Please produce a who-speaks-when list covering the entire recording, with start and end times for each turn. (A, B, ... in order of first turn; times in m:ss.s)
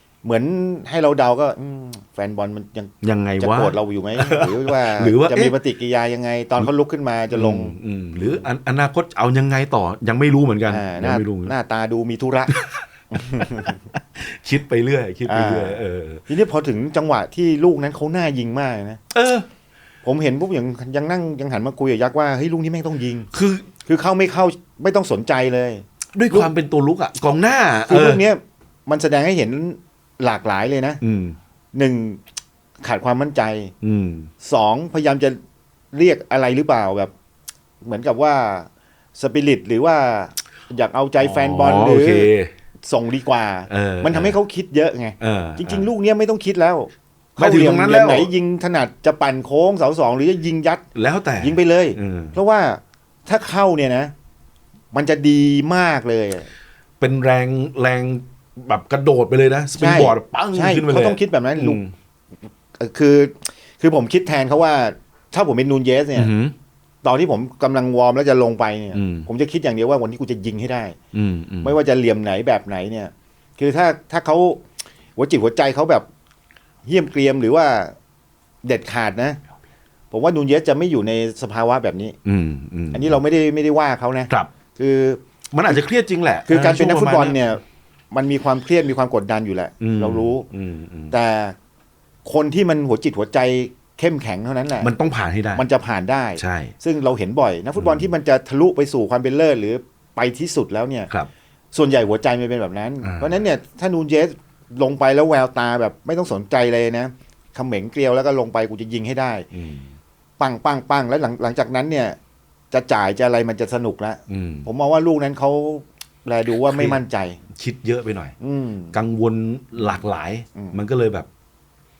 0:00.2-0:08.4 A
0:03.0-0:05.6 B
0:07.3-0:11.5 B
0:10.7-0:12.5 A
0:12.5-0:12.8 B
0:13.1-0:13.8 A
0:13.3-0:16.2 B
0:15.3-0:19.0 A
0:19.1-0:19.5 B
0:20.0-0:23.3 A
0:23.3-0:23.7 B
0:23.9-0:26.5 A
0:26.2-0:28.2 B
0:27.9-0:31.0 A
0:31.0-0:31.4 B
0:31.7-0:32.2 A
0:32.8-0:33.7 A
0:33.8-0:34.3 B
0:34.4-0:35.4 A
0:35.9-0:37.1 A
0:37.8-0:42.3 A
0:41.2-0:42.5 B
0:42.9-0:50.8 A
0:43.7-0:44.4 B
0:45.2-0:45.9 B
0:47.4-0:48.3 B
0:51.0-0:52.4 B
0:51.4-0:54.1 A
0:54.9-0:56.5 A
0:57.0-1:01.9 B
0:59.8-1:01.8 A
1:02.8-1:06.3 A
1:06.2-1:06.5 B
1:07.0-1:11.0 A
1:08.9-1:09.3 B
1:11.1-1:11.8 B
1:11.6-1:14.6 A
1:15.2-1:16.1 A
1:16.8-1:17.9 A
1:18.6-1:19.4 A
1:20.1-1:22.2 A
1:22.2-1:23.2 B
1:22.9-1:25.8 A
1:25.5-1:27.4 B
1:26.5-1:30.5 A
1:29.8-1:31.2 B
1:31.1-1:31.5 A
1:32.2-1:34.9 A
1:34.8-1:35.6 B
1:35.5-1:41.1 A
1:36.4-1:36.7 B
1:37.8-1:38.1 B
1:41.7-1:49.5 A
1:43.0-1:43.4 B
1:49.5-1:49.9 B
1:50.4-1:52.2 A
1:52.7-1:57.4 A
1:54.3-1:54.7 B
1:56.6-1:57.0 B
1:57.6-1:58.3 B
1:58.4-1:59.0 A
1:58.9-2:01.3 B